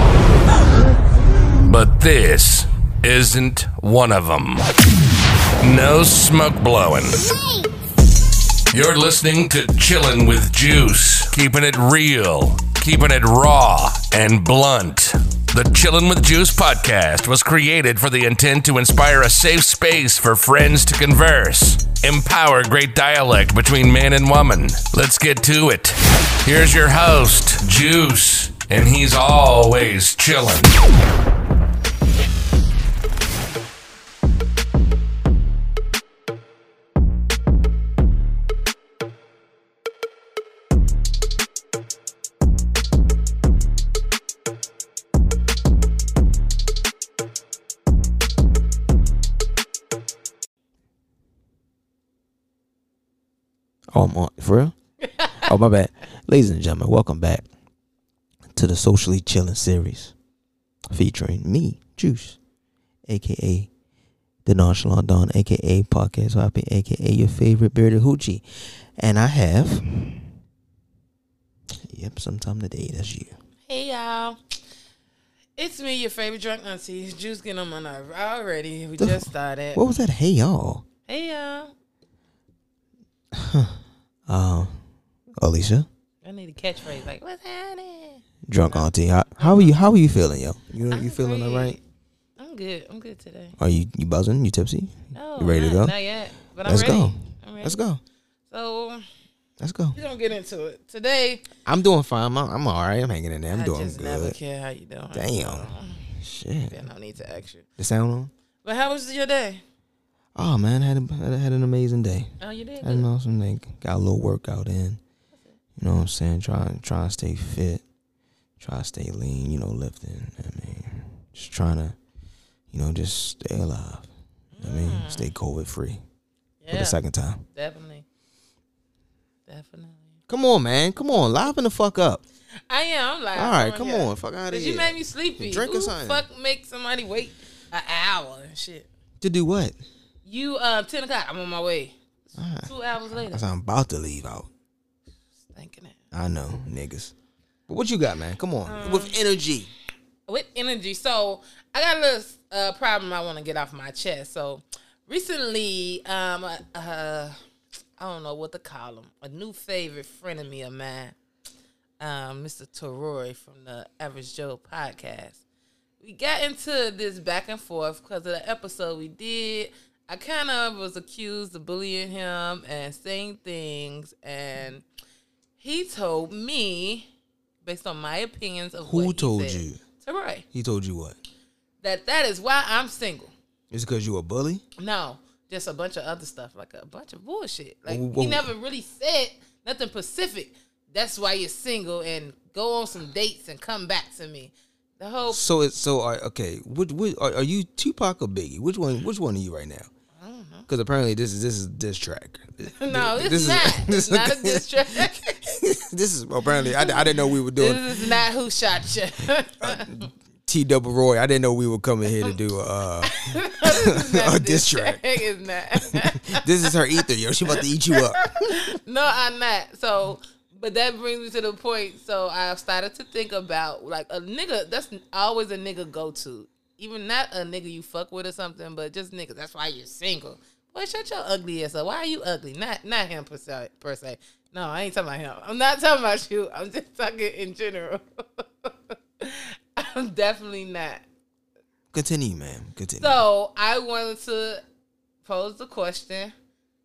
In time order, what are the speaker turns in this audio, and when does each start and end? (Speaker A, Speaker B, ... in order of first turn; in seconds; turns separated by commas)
Speaker A: 1.6-4.6, Speaker A: 5.6-7.2, Speaker A: 8.7-30.7, Speaker B: 53.9-54.7, Speaker B: 55.3-57.5, Speaker B: 58.5-60.1, Speaker B: 60.9-62.4, Speaker B: 63.1-63.7, Speaker B: 64.5-70.3, Speaker B: 71.9-73.3, Speaker C: 73.7-74.4, Speaker C: 75.6-79.9, Speaker B: 79.0-80.8, Speaker C: 81.0-81.7, Speaker B: 83.3-84.8, Speaker B: 85.4-85.9, Speaker C: 86.2-89.8, Speaker B: 88.5-91.8, Speaker C: 90.9-91.8, Speaker C: 92.4-93.6, Speaker B: 93.6-95.9, Speaker C: 95.1-97.8, Speaker B: 96.6-98.0, Speaker C: 98.5-99.0, Speaker B: 99.6-100.0, Speaker C: 99.9-101.5, Speaker B: 101.7-104.4, Speaker C: 103.5-106.1, Speaker B: 105.1-106.8, Speaker C: 106.7-107.7, Speaker B: 107.8-108.3, Speaker C: 108.6-109.6, Speaker B: 110.3-115.0, Speaker C: 112.4-113.1, Speaker B: 115.8-117.8, Speaker B: 118.6-122.0, Speaker B: 122.7-124.1, Speaker C: 124.5-125.3, Speaker B: 124.6-126.0, Speaker C: 126.6-127.0, Speaker B: 126.7-127.4, Speaker C: 127.5-128.0, Speaker C: 129.5-130.2, Speaker B: 130.3-132.2, Speaker C: 132.7-138.9, Speaker B: 133.3-136.2, Speaker B: 139.2-139.8, Speaker C: 140.2-141.9, Speaker B: 142.4-144.5, Speaker C: 142.6-143.4, Speaker C: 145.5-146.0, Speaker B: 146.1-147.1, Speaker B: 147.7-149.7, Speaker C: 148.7-149.2, Speaker C: 150.3-157.4, Speaker C: 158.0-161.2, Speaker C: 162.0-165.4, Speaker C: 166.0-174.8, Speaker C: 175.6-177.1, Speaker C: 177.6-180.4, Speaker B: 178.8-179.8, Speaker B: 180.5-181.2, Speaker C: 181.8-183.3, Speaker B: 183.7-184.6, Speaker C: 184.8-195.4, Speaker B: 187.9-188.5, Speaker B: 195.3-199.9, Speaker C: 200.2-200.7, Speaker B: 200.7-208.2, Speaker C: 202.8-205.4, Speaker C: 206.4-210.1, Speaker B: 209.2-215.1, Speaker C: 213.0-216.7, Speaker B: 215.9-218.7, Speaker C: 217.5-241.0, Speaker B: 241.9-243.2, Speaker C: 243.0-244.6, Speaker C: 245.2-246.3